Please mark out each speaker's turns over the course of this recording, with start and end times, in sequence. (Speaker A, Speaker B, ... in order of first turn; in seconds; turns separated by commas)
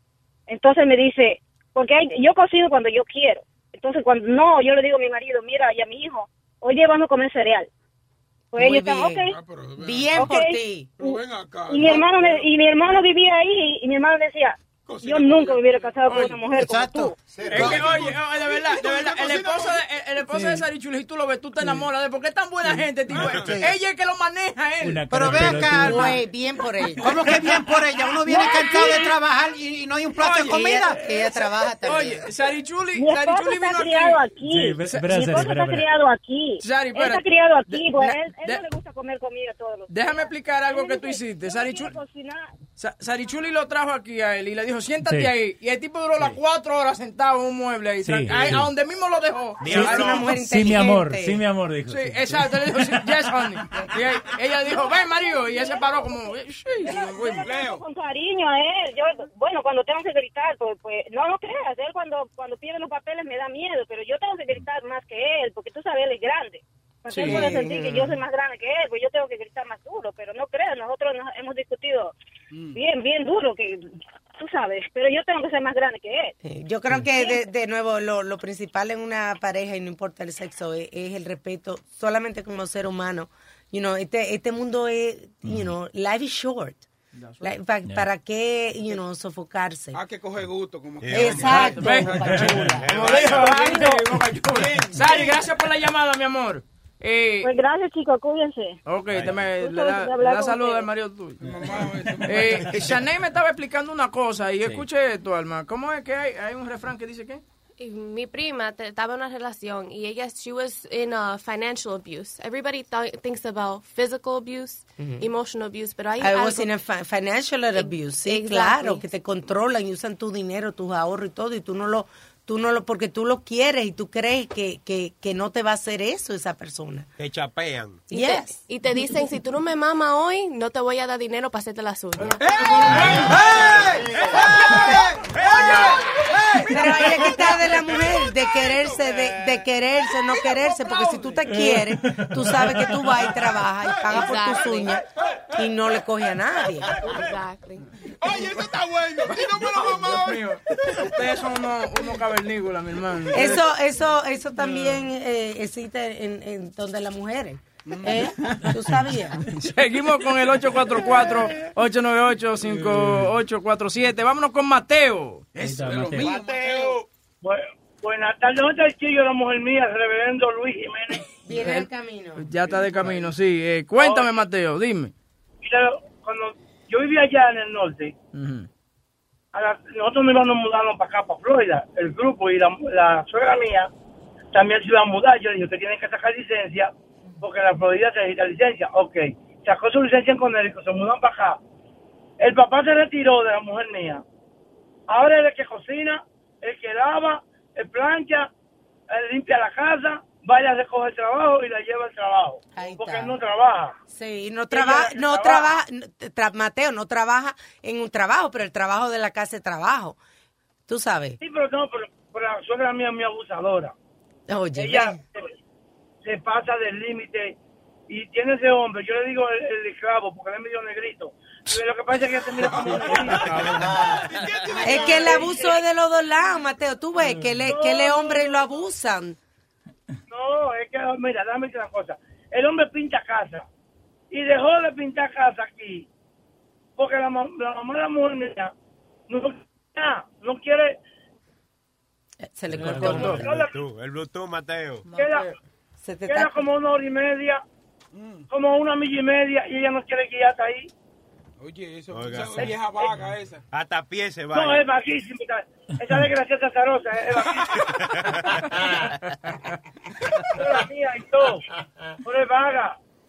Speaker A: 0.5-7.7, Speaker A: 8.5-9.3, Speaker B: 8.5-10.9, Speaker C: 9.3-10.3, Speaker A: 10.1-11.2, Speaker C: 11.0-12.5, Speaker A: 11.7-17.1, Speaker C: 14.9-15.9, Speaker D: 16.1-16.4, Speaker E: 16.6-17.1, Speaker C: 17.3-19.8, Speaker D: 17.5-26.1, Speaker C: 23.1-23.6, Speaker F: 24.8-26.2, Speaker E: 25.1-26.1, Speaker B: 25.4-27.4, Speaker E: 27.0-31.0, Speaker D: 30.2-30.7, Speaker B: 30.4-32.2, Speaker D: 31.8-34.2, Speaker A: 33.0-42.5, Speaker F: 34.5-35.9, Speaker D: 34.8-35.4, Speaker D: 36.6-38.6, Speaker D: 39.9-42.0, Speaker D: 42.8-50.2, Speaker F: 45.0-45.3, Speaker F: 48.0-48.7, Speaker G: 49.6-50.2, Speaker F: 49.7-52.6, Speaker B: 49.7-51.4, Speaker D: 51.9-57.5, Speaker A: 56.9-72.1, Speaker C: 57.4-57.8, Speaker D: 67.1-67.5, Speaker B: 67.2-68.2, Speaker C: 72.5-72.8, Speaker A: 72.7-73.8, Speaker A: 74.4-76.3, Speaker B: 76.4-86.8, Speaker F: 85.4-85.7, Speaker D: 87.2-87.5, Speaker B: 87.4-90.0, Speaker F: 87.8-88.1, Speaker C: 89.9-93.9, Speaker G: 91.0-91.8, Speaker B: 91.1-92.8, Speaker D: 91.7-97.5, Speaker F: 92.3-92.6, Speaker G: 92.7-93.6, Speaker C: 94.5-95.3, Speaker A: 97.4-98.8, Speaker D: 98.8-101.4, Speaker A: 99.5-100.8, Speaker C: 101.4-103.0, Speaker D: 102.2-107.4, Speaker H: 107.8-116.7, Speaker B: 115.0-115.2, Speaker B: 116.2-127.0, Speaker H: 117.7-119.0, Speaker G: 127.2-128.0, Speaker H: 128.1-132.5, Speaker B: 128.1-128.6, Speaker C: 132.3-136.2, Speaker B: 136.7-145.0, Speaker C: 136.8-137.9, Speaker F: 141.5-142.9, Speaker H: 144.1-144.9, Speaker B: 145.6-146.9, Speaker H: 147.1-147.8, Speaker C: 148.2-150.6, Speaker D: 149.9-150.3, Speaker D: 151.0-153.6, Speaker B: 153.3-159.4, Speaker C: 157.8-158.3, Speaker D: 159.6-165.5, Speaker C: 162.7-163.1, Speaker C: 165.5-167.1, Speaker F: 165.6-166.4, Speaker G: 166.2-166.9, Speaker I: 167.4-171.2, Speaker B: 171.4-172.4, Speaker D: 171.5-171.8, Speaker D: 172.4-175.1, Speaker C: 172.7-173.2, Speaker I: 174.0-174.4, Speaker I: 175.6-178.1, Speaker D: 178.3-178.7, Speaker I: 179.5-183.9, Speaker I: 184.5-191.6, Speaker I: 192.4-194.2, Speaker I: 195.1-198.5, Speaker I: 199.1-203.9, Speaker B: 202.7-203.3, Speaker B: 204.1-210.2, Speaker I: 204.7-205.7, Speaker B: 210.9-211.4, Speaker I: 211.4-213.9, Speaker B: 214.5-215.2, Speaker I: 214.8-215.4, Speaker I: 216.2-217.6, Speaker I: 218.1-223.7, Speaker C: 222.6-225.6, Speaker B: 224.8-229.4, Speaker I: 225.1-225.8, Speaker I: 227.6-228.6, Speaker I: 230.3-233.6, Speaker I: 234.3-236.1, Speaker I: 237.0-238.7, Speaker I: 239.3-241.0, Speaker B: 242.4-243.4, Speaker F: 242.8-243.2, Speaker I: 242.9-243.7, Speaker G: 243.4-245.0, Speaker I: 245.1-245.6, Speaker B: 246.0-246.5, Speaker I: 246.3-247.6, Speaker C: 248.1-248.4, Speaker I: 248.5-250.9, Speaker C: 251.6-253.6, Speaker G: 252.1-252.8, Speaker I: 252.6-253.1, Speaker G: 253.7-254.9, Speaker I: 254.5-257.7, Speaker G: 258.2-258.6, Speaker I: 260.5-261.6, Speaker I: 262.2-262.9